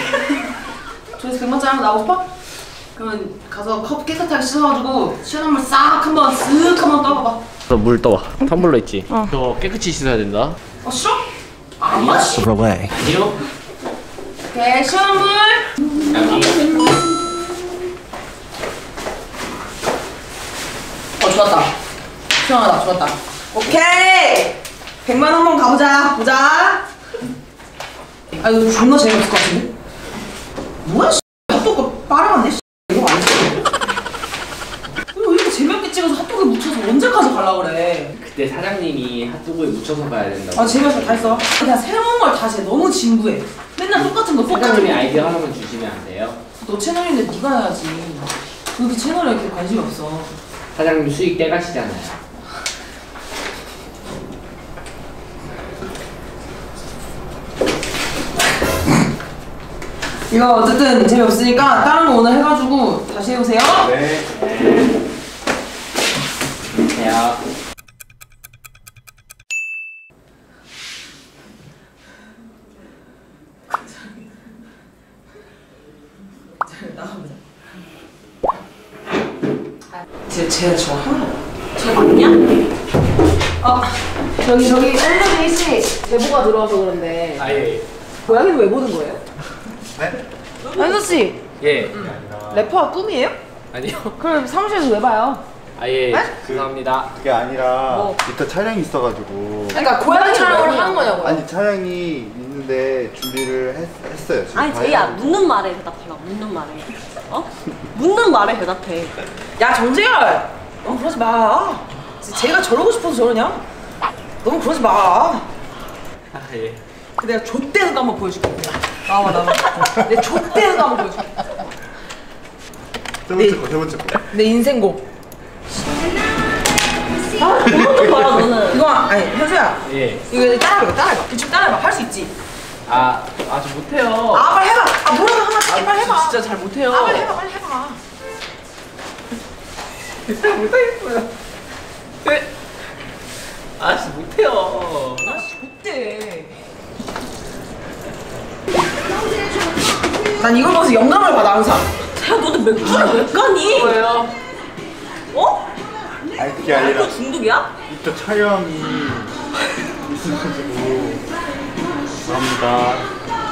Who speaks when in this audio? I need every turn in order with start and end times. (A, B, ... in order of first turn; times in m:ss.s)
0:01.2-0:02.3 A
0:03.0-0:07.4 A
0:07.7-0:10.6 B
0:10.8-0:11.3 A
0:11.8-0:12.5 A
0:11.9-0:13.4 B
0:14.4-0:16.7 A
0:16.1-0:16.7 B
0:21.2-0:21.7 A
0:22.4-0:26.8 A
0:28.4-0:29.7 A
0:30.8-0:33.6 A
0:35.1-0:38.2 A
0:38.2-0:41.4 B
0:40.5-0:45.4 A
0:44.5-0:46.4 B
0:46.6-0:50.3 A
0:50.7-0:52.2 B
1:00.3-1:03.9 A
1:03.8-1:04.9 B
1:06.9-1:07.4 B
1:13.7-1:14.2 A
1:16.5-1:17.4 A
1:20.3-1:21.4 A
1:21.8-1:22.4 C
1:23.6-1:27.5 A
1:27.4-1:27.8 B
1:28.2-1:29.2 A
1:30.6-1:31.3 C
1:30.8-1:33.4 A
1:31.6-1:32.0 B
1:31.8-1:32.8 D
1:33.7-1:34.2 B
1:34.2-1:35.4 A
1:35.8-1:37.1 B
1:36.4-1:39.8 D
1:37.9-1:38.2 C
1:39.7-1:41.2 C
1:39.7-1:41.4 A
1:40.4-1:45.4 D
1:44.5-1:49.2 C
1:49.6-1:53.6 A
1:54.4-1:55.5 A
1:56.3-1:56.8 B
1:57.2-2:01.6 A
2:03.3-2:04.2 D
2:03.3-2:03.6 A
2:04.3-2:05.0 A
2:07.4-2:08.8 C
2:07.4-2:07.7 A
2:08.7-2:12.3 A
2:09.9-2:10.2 B
2:12.9-2:14.5 B
2:14.3-2:18.0 A
2:15.6-2:17.3 B
2:20.3-2:21.2 B
2:23.8-2:25.2 B
2:25.3-2:26.6 A
2:30.4-2:31.9 A
2:32.1-2:34.0 C
2:32.8-2:34.3 B
2:35.3-2:35.7 C
2:36.4-2:37.2 D
2:36.6-2:37.7 C
2:37.9-2:39.4 D
2:39.9-2:41.3 D
2:42.2-2:43.1 D